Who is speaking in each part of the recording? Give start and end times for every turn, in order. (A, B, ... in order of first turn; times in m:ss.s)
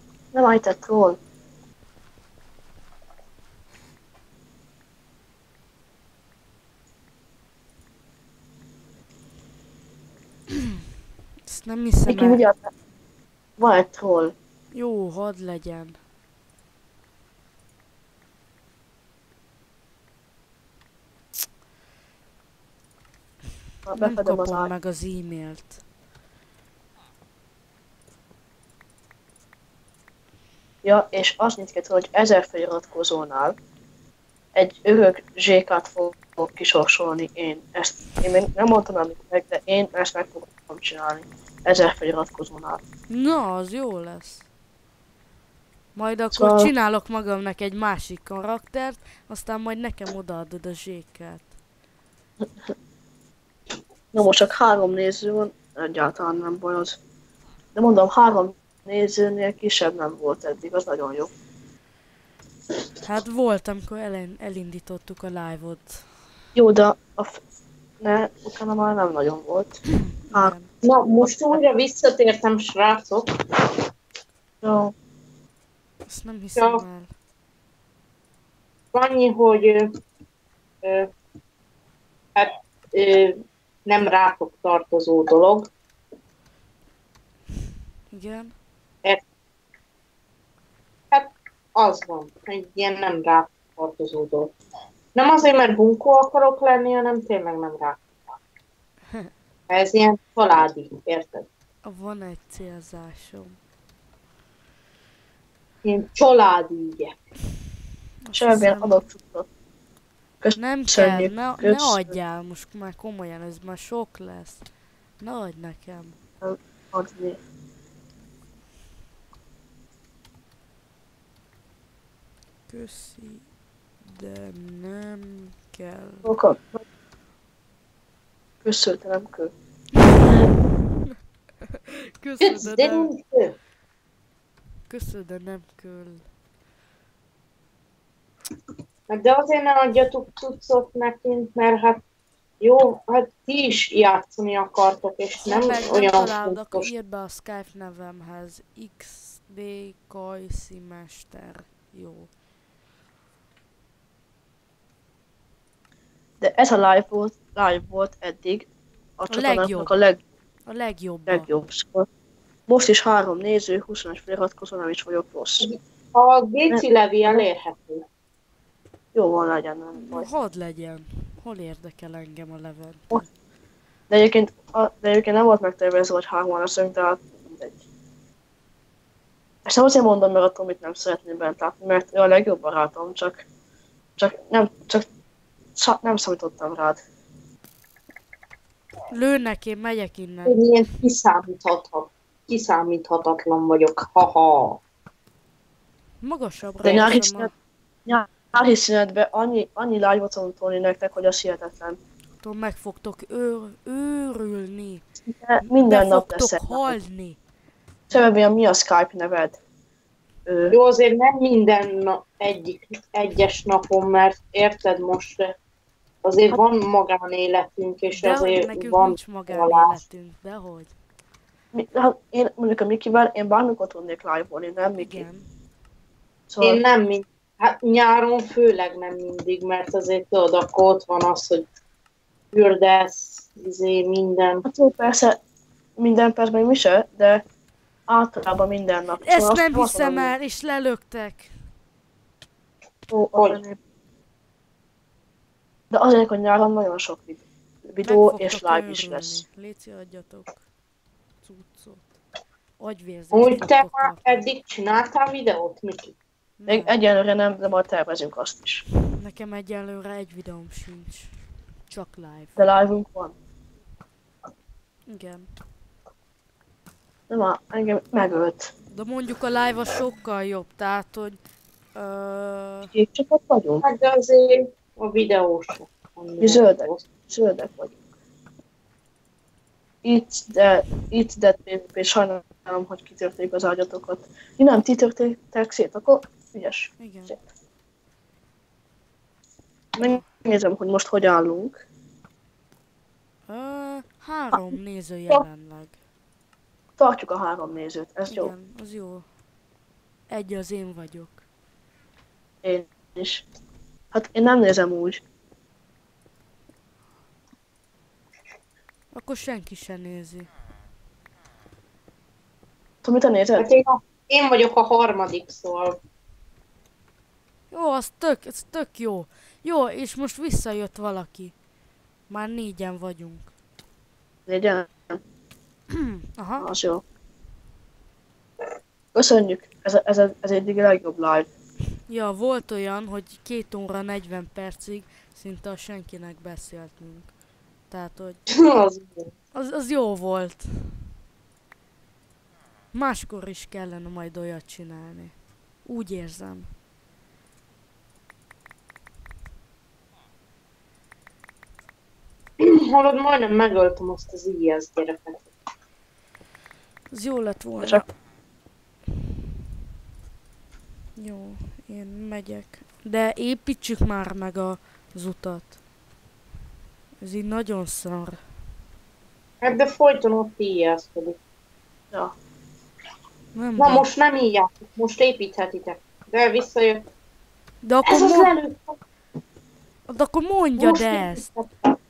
0:00.3-0:01.2 A
0:11.5-0:12.4 B
0:12.1-0:12.7 A
0:13.6-0:14.3 A
0:14.7-0:16.0 B
0:23.9-0:24.7 A
0:24.0-0:25.8 B
0:30.8-0:33.6 A
0:34.6-0:42.8 A
0:43.1-0:44.4 B
0:45.9-0:51.5 B
0:46.3-0:46.7 A
0:54.1-0:57.0 A
0:57.7-1:01.3 A
1:03.0-1:06.1 B
1:06.6-1:07.4 A
1:08.0-1:09.8 A
1:09.9-1:10.7 B
1:10.8-1:13.8 C
1:14.6-1:14.9 A
1:16.1-1:17.1 B
1:16.6-1:16.8 C
1:18.9-1:19.9 C
1:20.8-1:21.1 C
1:22.3-1:25.7 C
1:28.1-1:28.5 B
1:31.1-1:34.5 C
1:35.1-1:38.3 C
1:39.7-1:41.5 C
1:41.8-1:43.6 B
1:45.8-1:47.2 C
1:48.2-1:49.0 B
1:48.3-1:49.5 A
1:50.4-1:52.1 A
1:50.6-1:54.6 B
1:55.2-1:56.2 B
1:56.4-1:57.4 A
2:02.7-2:03.4 B
2:04.0-2:06.3 B
2:06.2-2:06.8 A
2:08.6-2:09.5 A
2:10.1-2:10.4 B
2:11.7-2:13.1 B
2:12.4-2:13.6 C
2:14.9-2:16.2 B
2:19.1-2:22.0 C
2:22.6-2:26.9 C
2:25.4-2:32.3 B
2:36.4-2:38.7 A
2:39.2-2:40.2 A
2:39.3-2:39.9 B
2:40.7-2:41.5 B
2:41.3-2:42.1 A
2:42.7-2:45.7 A
2:45.6-2:48.0 C
2:46.7-2:47.4 A
2:49.1-2:50.3 A
2:50.0-2:53.3 B
2:54.1-2:57.8 A
2:59.6-3:03.4 A
3:04.2-3:05.0 A
3:05.8-3:07.0 A
3:09.1-3:10.6 B
3:10.4-3:14.8 C
3:16.2-3:17.5 B
3:16.8-3:17.5 A
3:18.0-3:22.0 A
3:22.4-3:25.0 B
3:25.2-3:27.0 A
3:25.6-3:27.4 B
3:28.1-3:29.6 A
3:30.4-3:30.7 A
3:30.7-3:35.5 C
3:36.2-3:40.0 C
3:38.1-3:40.9 B
3:41.7-3:45.3 A
3:45.0-3:45.5 B
3:46.5-3:46.8 A
3:46.6-3:51.7 C
3:52.5-3:54.6 C
3:54.6-3:55.4 A
3:56.0-3:57.4 A
3:58.1-4:00.3 A
3:59.2-4:01.5 B
4:03.1-4:03.8 A
4:03.3-4:03.6 C
4:05.9-4:09.4 A
4:08.0-4:10.6 B
4:11.4-4:12.1 B
4:12.8-4:14.4 B
4:13.3-4:16.1 C
4:16.6-4:17.0 B
4:16.7-4:18.8 A
4:19.1-4:22.6 B
4:22.6-4:23.3 A
4:25.1-4:25.5 B
4:27.3-4:28.7 A
4:28.9-4:31.4 B
4:31.9-4:32.9 B
4:32.9-4:33.8 A
4:33.8-4:37.0 C
4:36.4-4:38.0 A
4:40.0-4:47.4 A
4:47.0-4:47.4 B
4:50.0-4:51.8 A
4:53.5-4:55.9 B
4:57.0-4:58.5 A
4:58.3-4:59.2 B
5:00.3-5:01.4 B
5:02.6-5:03.4 A
5:04.1-5:05.2 A
5:09.1-5:10.5 B
5:13.0-5:13.7 A
5:13.6-5:16.0 C
5:17.7-5:21.5 B
5:22.3-5:23.5 B
5:24.5-5:25.2 A
5:25.9-5:26.7 B
5:26.6-5:27.0 A
5:29.1-5:31.5 A
5:32.1-5:37.3 B
5:37.9-5:38.4 B
5:38.5-5:39.3 C
5:39.5-5:41.1 B
5:42.9-5:45.3 B
5:45.8-5:46.7 B
5:52.6-5:55.5 C
5:57.1-5:58.0 B
5:57.8-5:58.0 A
6:01.2-6:05.7 B
6:07.2-6:08.4 B
6:09.6-6:11.4 C
6:13.6-6:14.0 B
6:13.8-6:17.1 C
6:17.8-6:18.5 B
6:18.0-6:19.0 C
6:20.1-6:21.5 B
6:20.8-6:21.9 C